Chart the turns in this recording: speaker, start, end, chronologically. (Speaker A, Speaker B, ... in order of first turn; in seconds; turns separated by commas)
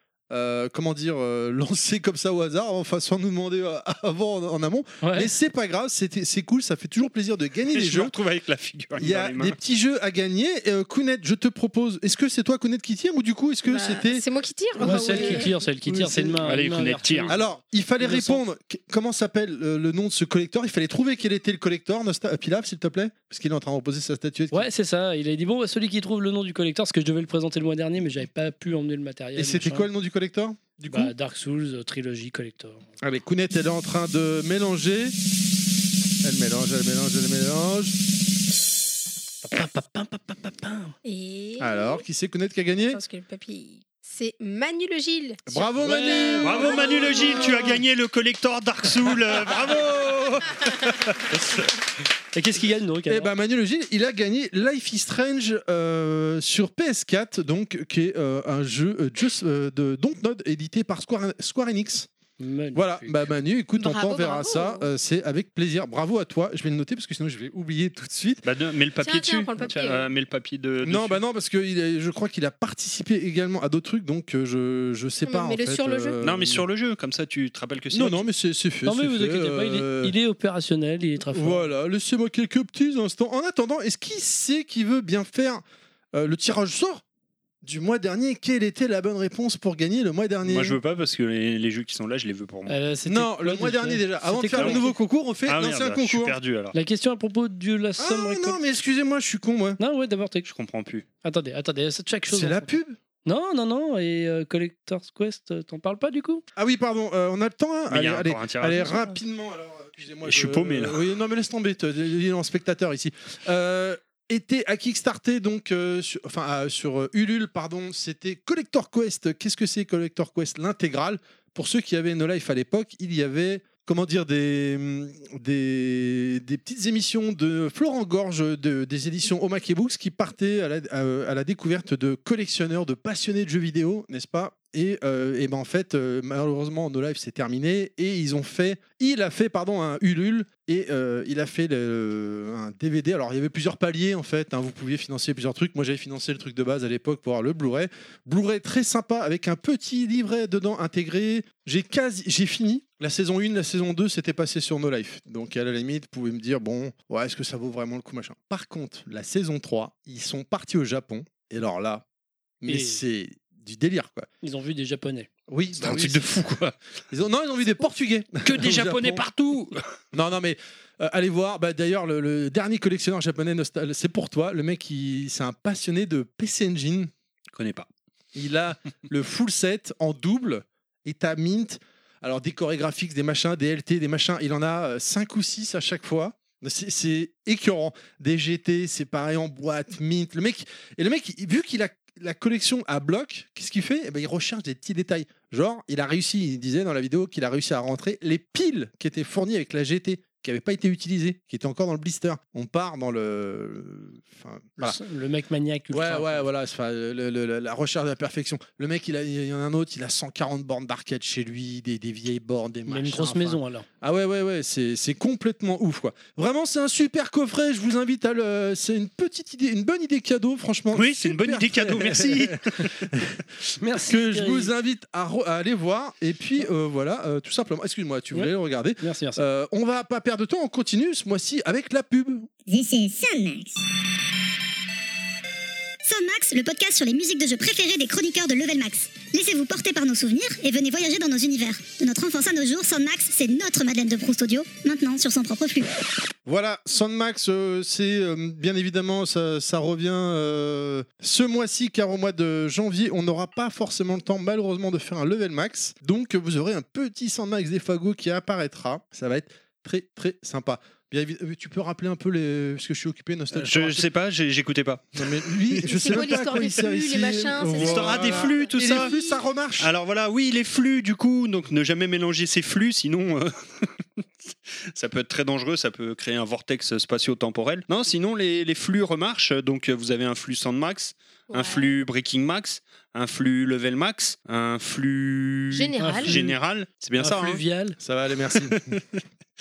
Speaker A: 0.3-8.1, Speaker B: 5.0-5.3, Speaker C: 7.7-9.6, Speaker A: 9.0-14.2, Speaker D: 13.7-15.5, Speaker A: 14.8-16.4, Speaker B: 14.8-17.4, Speaker C: 16.4-17.3, Speaker A: 17.3-24.7, Speaker B: 18.0-18.4, Speaker B: 24.5-29.9, Speaker A: 29.4-31.1, Speaker B: 30.9-32.8, Speaker A: 33.0-35.1, Speaker A: 36.2-38.0, Speaker B: 39.4-40.9, Speaker D: 41.0-42.0, Speaker A: 41.6-43.0, Speaker D: 42.9-47.8, Speaker A: 45.5-47.7, Speaker B: 45.8-46.8, Speaker C: 46.4-50.0, Speaker A: 49.1-51.4, Speaker B: 52.3-53.3, Speaker A: 53.1-62.1, Speaker B: 62.4-63.3, Speaker A: 62.7-68.4, Speaker D: 63.8-64.9, Speaker C: 68.4-71.2, Speaker D: 69.0-70.1, Speaker A: 70.8-76.7, Speaker D: 75.3-76.2, Speaker C: 76.2-78.3, Speaker A: 77.9-80.1, Speaker B: 78.9-81.7, Speaker A: 81.2-87.0, Speaker A: 87.6-90.8, Speaker C: 90.5-92.8, Speaker B: 92.7-94.9, Speaker A: 93.1-96.4, Speaker C: 94.6-94.8, Speaker C: 95.5-96.7, Speaker B: 96.7-98.6, Speaker A: 98.0-99.8, Speaker B: 99.8-100.5, Speaker C: 100.5-101.0, Speaker B: 101.2-102.7, Speaker A: 102.3-103.0, Speaker B: 103.2-106.4, Speaker A: 106.5-162.1, Speaker C: 107.9-108.9, Speaker C: 110.2-111.0, Speaker A: 162.6-164.3, Speaker B: 162.7-163.0, Speaker B: 164.4-165.3, Speaker A: 165.5-169.3, Speaker C: 165.8-166.3, Speaker C: 168.4-169.8, Speaker A: 170.1-177.1, Speaker C: 177.6-177.9, Speaker A: 178.3-205.0, Speaker B: 204.8-206.4, Speaker A: 205.9-232.5, Speaker B: 212.9-213.9, Speaker C: 220.9-223.0, Speaker B: 223.8-224.7, Speaker B: 228.3-229.4, Speaker E: 232.7-233.8, Speaker E: 236.0-246.1, Speaker A: 246.4-264.1, Speaker C: 263.5-266.7, Speaker A: 265.2-269.9, Speaker D: 265.9-269.4, Speaker C: 267.7-269.1, Speaker C: 269.8-273.9, Speaker C: 274.9-287.6, Speaker D: 281.5-281.9, Speaker D: 285.7-286.4, Speaker B: 286.0-286.6, Speaker B: 287.2-288.0, Speaker A: 288.0-288.8, Speaker C: 288.5-289.2